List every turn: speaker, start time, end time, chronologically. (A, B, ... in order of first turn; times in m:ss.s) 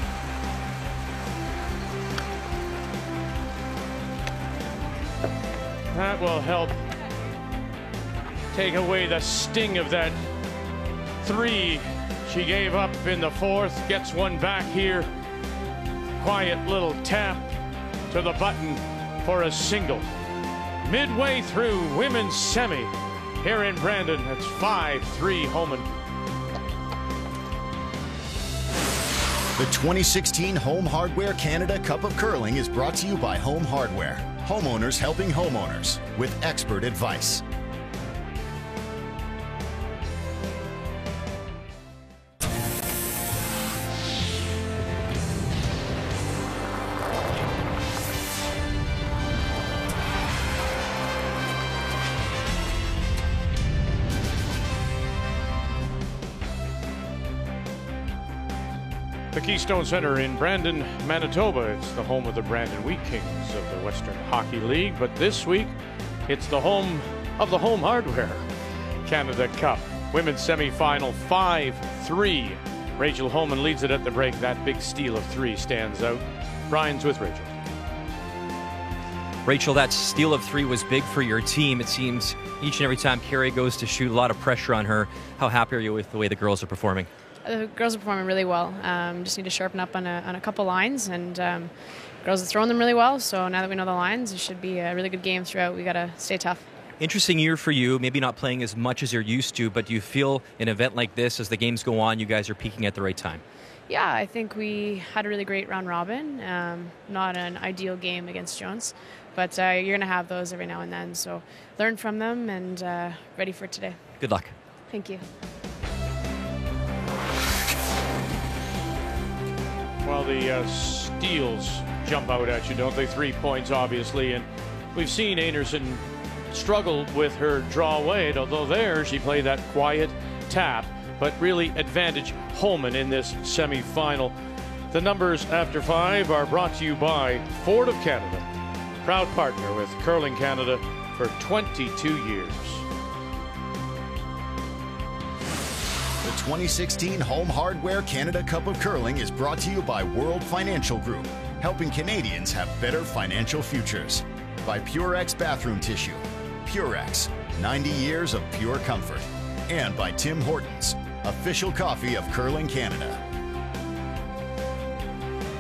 0:05.9-0:06.8 A
0:08.5-0:10.3 A
0:11.2-0:15.1 A
0:16.2-0:17.6 A
0:18.1-0:20.1 A
0:20.8-0:26.0 A
0:29.6-0:37.4 B
0:59.3-1:05.8 A
1:06.3-1:08.5 A
1:09.0-1:17.5 A
1:19.4-1:27.1 C
1:27.4-1:36.7 D
1:37.0-1:43.4 C
1:43.9-1:54.0 D
1:54.2-1:54.6 C
1:54.9-1:55.3 D
2:00.0-2:14.4 A
2:14.9-2:18.5 A
2:19.0-2:22.8 A
2:26.2-2:43.2 B